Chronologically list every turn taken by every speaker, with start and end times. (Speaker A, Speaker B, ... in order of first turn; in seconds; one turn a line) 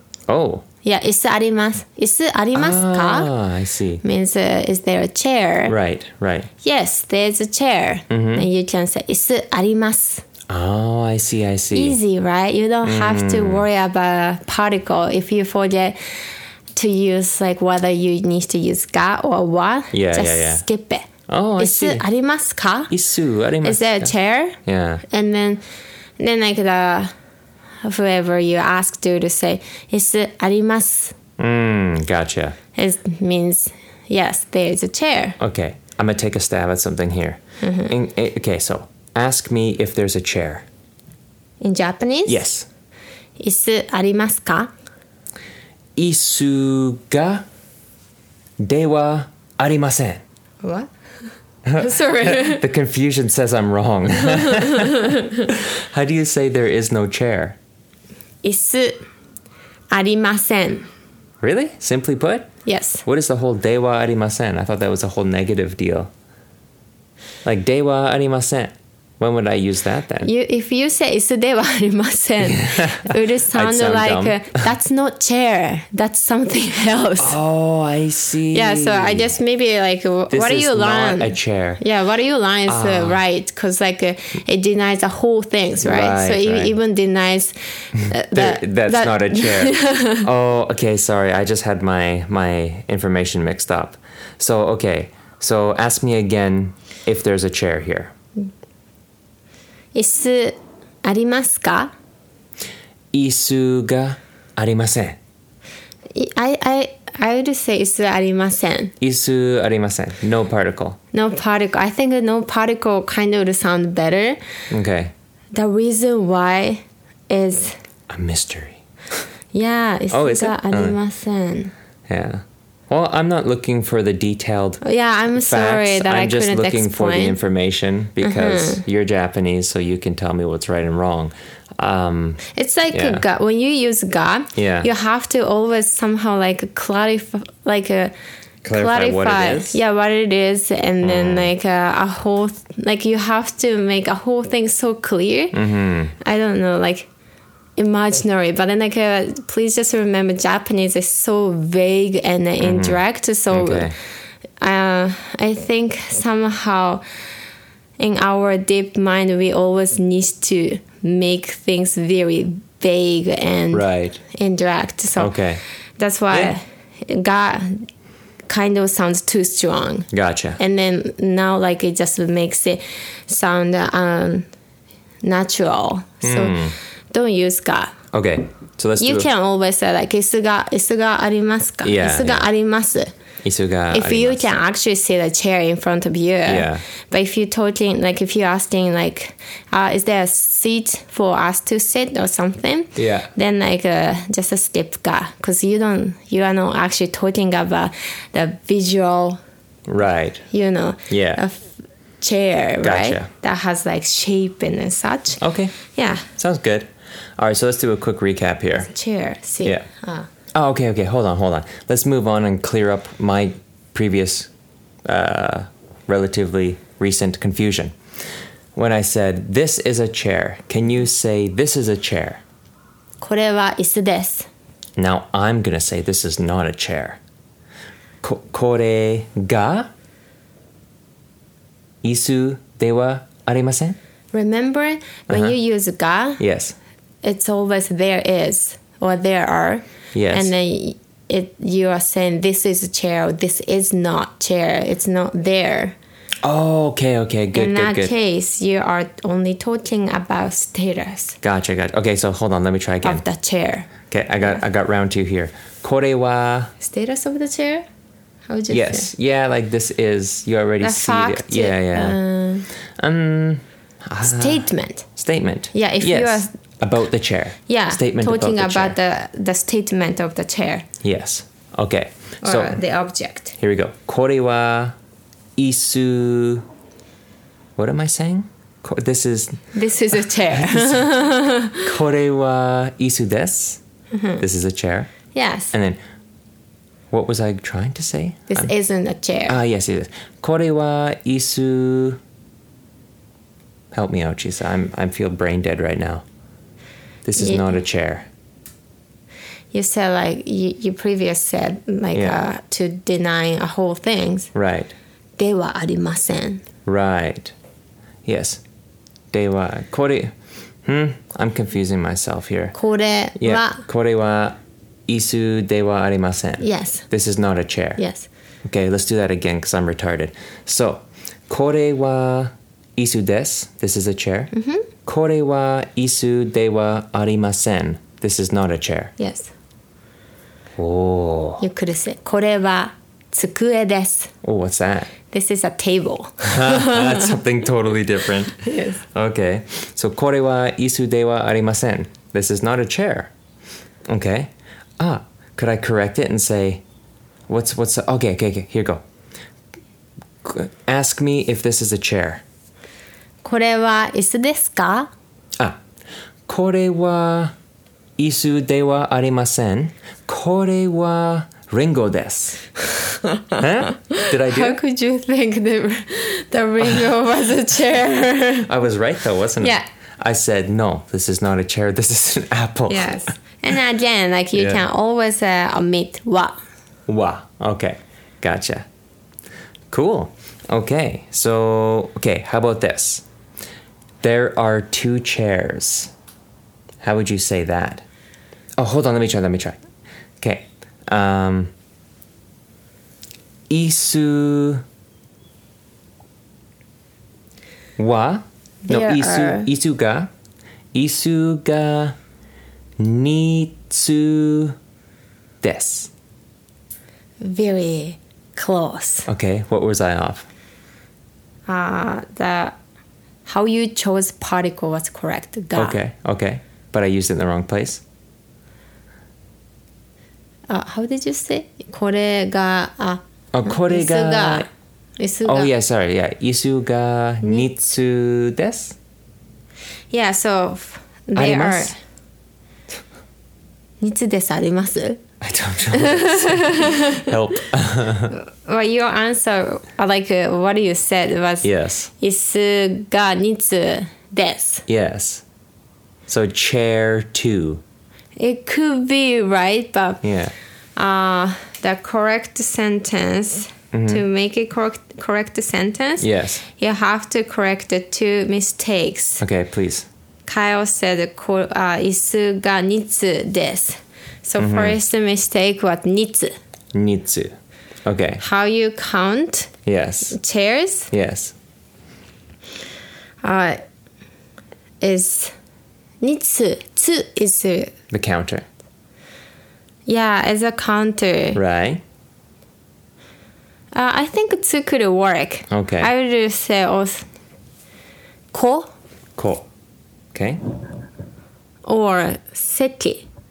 Speaker A: 0.3-0.6
Speaker B: 0.8-3.3
Speaker A: 2.5-4.0
Speaker B: 4.0-5.7
Speaker A: 5.7-6.5
Speaker B: 6.6-10.2
Speaker A: 8.1-8.5
Speaker A: 10.5-12.0
Speaker B: 11.7-21.1
Speaker A: 12.8-13.6
Speaker A: 19.9-20.6
Speaker A: 21.3-22.0
Speaker B: 21.6-22.9
Speaker A: 22.9-24.1
Speaker B: 23.6-25.6
Speaker A: 24.6-25.0
Speaker B: 26.2-27.1
Speaker B: 27.8-31.1
Speaker A: 31.4-32.6
Speaker B: 32.7-35.4
Speaker A: 35.4-40.6
Speaker B: 37.6-37.9
Speaker B: 41.6-42.5
Speaker A: 42.2-42.7
Speaker B: 43.4-44.7
Speaker A: 46.0-47.5
Speaker A: 48.6-50.2
Speaker B: 50.6-50.9
Speaker A: 51.6-57.6
Speaker B: 51.8-52.6
Speaker B: 54.2-55.5
Speaker B: 58.4-59.0
Speaker B: 59.9-60.9
Speaker A: 61.4-62.5
Speaker B: 62.6-63.0
Speaker A: 63.0-66.1
Speaker A: 67.4-70.3
Speaker B: 70.2-77.4
Speaker A: 72.4-74.7
Speaker A: 77.2-79.3
Speaker B: 78.5-90.3
Speaker A: 80.3-81.8
Speaker A: 82.7-83.2
Speaker A: 85.8-86.7
Speaker A: 87.9-98.1
Speaker B: 99.9-101.9
Speaker A: 103.1-105.2
Speaker B: 106.1-108.9
Speaker A: 109.0-111.0
Speaker B: 111.1-114.4
Speaker A: 114.7-115.1
Speaker B: 115.5-117.8
Speaker A: 118.1-118.8
Speaker B: 119.5-121.7
Speaker A: 120.1-121.0
Speaker A: 122.1-124.8
Speaker B: 124.8-127.4
Speaker A: 125.3-133.2
Speaker B: 128.2-128.8
Speaker B: 132.5-138.1
Speaker A: 134.5-134.9
Speaker A: 138.6-139.8
Speaker B: 138.7-145.6
Speaker A: 141.0-141.5
Speaker A: 145.5-146.1
Speaker B: 146.2-147.1
Speaker B: 147.8-153.9
Speaker A: 152.6-153.0
Speaker A: 153.5-153.9
Speaker B: 154.6-157.0
Speaker B: 158.0-165.3
Speaker A: 163.7-164.2
Speaker A: 165.2-165.6
Speaker B: 166.0-167.9
Speaker B: 168.5-174.5
Speaker A: 170.1-170.6
Speaker B: 175.2-177.9
Speaker A: 176.2-176.8
Speaker A: 178.1-179.3
Speaker B: 179.0-183.1
Speaker A: 181.8-182.5
Speaker A: 183.4-184.5
Speaker B: 183.9-199.4
Speaker A: 186.4-186.8
Speaker A: 192.9-193.3
Speaker A: 199.9-200.4
Speaker B: 200.5-201.7
Speaker A: 201.1-201.4
Speaker B: 202.2-206.3
Speaker A: 202.8-203.3
Speaker A: 205.4-205.8
Speaker A: 206.3-208.9
Speaker B: 208.8-210.3
Speaker A: 210.5-214.5
Speaker A: 215.0-217.9
Speaker A: 218.7-222.4
Speaker B: 223.2-224.5
Speaker A: 225.0-227.2
Speaker A: 228.2-229.9
Speaker A: 232.0-234.0
Speaker B: 234.3-236.4
Speaker A: 235.3-235.6
Speaker A: 236.4-236.8
Speaker B: 237.2-245.9
Speaker A: 240.1-240.5
Speaker A: 246.4-248.1
Speaker B: 247.5-251.4
Speaker A: 251.4-253.2
Speaker B: 253.0-253.9
Speaker A: 254.1-256.7
Speaker B: 256.8-257.8
Speaker B: 258.5-259.1
Speaker A: 258.7-262.2
Speaker B: 260.8-262.7
Speaker A: 263.0-268.9
Speaker B: 264.2-265.1
Speaker B: 265.7-266.5
Speaker B: 267.7-270.9
Speaker A: 271.0-272.8
Speaker B: 272.4-273.5
Speaker A: 273.6-274.9
Speaker A: 275.6-276.6
Speaker A: 277.8-279.7
Speaker B: 279.7-281.9
Speaker A: 280.5-281.1
Speaker A: 281.8-283.8
Speaker B: 284.1-284.4
Speaker A: 284.4-285.1
Speaker B: 285.3-285.7
Speaker A: 285.7-286.0
Speaker A: 287.1-288.7
Speaker B: 288.5-289.6
Speaker A: 289.5-292.2
Speaker A: 293.9-296.2
Speaker A: 297.2-298.3
Speaker B: 297.4-297.8
Speaker B: 299.7-304.5
Speaker A: 302.1-302.4
Speaker A: 304.5-304.9
Speaker B: 305.4-306.6
Speaker A: 306.8-307.5
Speaker A: 308.2-308.6
Speaker A: 309.3-310.3
Speaker A: 310.9-312.7
Speaker B: 312.7-313.8
Speaker A: 313.4-318.0
Speaker B: 316.6-317.0
Speaker B: 318.0-318.3
Speaker A: 318.6-324.5
Speaker B: 324.5-324.9
Speaker A: 325.1-329.1
Speaker B: 329.2-329.5
Speaker A: 330.8-331.6
Speaker B: 331.6-334.3
Speaker A: 334.4-335.1
Speaker B: 335.3-337.4
Speaker A: 336.4-343.3
Speaker B: 338.6-339.0
Speaker A: 344.1-346.8
Speaker A: 347.5-349.0
Speaker A: 350.4-352.4
Speaker B: 353.4-355.1
Speaker A: 356.5-357.5
Speaker A: 358.2-362.6
Speaker B: 363.2-368.7
Speaker A: 363.5-364.8
Speaker A: 368.6-373.3
Speaker B: 369.6-369.8
Speaker B: 372.9-376.6
Speaker A: 374.5-374.8
Speaker A: 377.1-378.8
Speaker A: 379.9-383.2
Speaker A: 384.2-386.1
Speaker A: 387.0-388.0
Speaker A: 388.8-389.8
Speaker A: 390.4-391.7
Speaker A: 393.7-394.8
Speaker A: 398.0-400.3
Speaker B: 398.8-399.7
Speaker A: 400.9-402.1
Speaker A: 403.0-404.8
Speaker A: 405.6-406.1
Speaker B: 407.4-409.3
Speaker A: 409.2-410.5
Speaker B: 411.7-412.8
Speaker B: 413.4-416.0
Speaker A: 415.7-418.0
Speaker B: 420.7-424.7
Speaker A: 423.5-424.7
Speaker B: 425.2-425.7
Speaker A: 425.4-428.9
Speaker B: 430.1-431.9
Speaker A: 431.4-431.9
Speaker B: 434.0-435.2
Speaker A: 435.4-438.4
Speaker B: 435.9-437.3
Speaker B: 438.3-444.8
Speaker A: 441.6-442.1
Speaker A: 444.9-445.4
Speaker A: 446.3-447.8
Speaker B: 448.4-450.2
Speaker A: 450.2-450.5
Speaker B: 450.9-459.4
Speaker A: 453.9-454.2
Speaker A: 456.2-456.6
Speaker A: 459.4-460.1
Speaker B: 460.4-466.5
Speaker A: 464.6-465.0
Speaker A: 466.9-468.4
Speaker B: 468.4-469.7
Speaker A: 469.9-470.4
Speaker B: 470.3-471.1
Speaker A: 471.1-471.5
Speaker B: 473.4-473.8
Speaker B: 475.0-475.5
Speaker B: 476.2-477.9
Speaker A: 478.1-478.6
Speaker B: 480.1-481.6
Speaker A: 481.5-482.0
Speaker B: 483.9-487.3
Speaker A: 485.7-486.1
Speaker B: 488.5-488.9
Speaker A: 489.4-489.7
Speaker A: 490.3-490.6
Speaker B: 491.9-493.2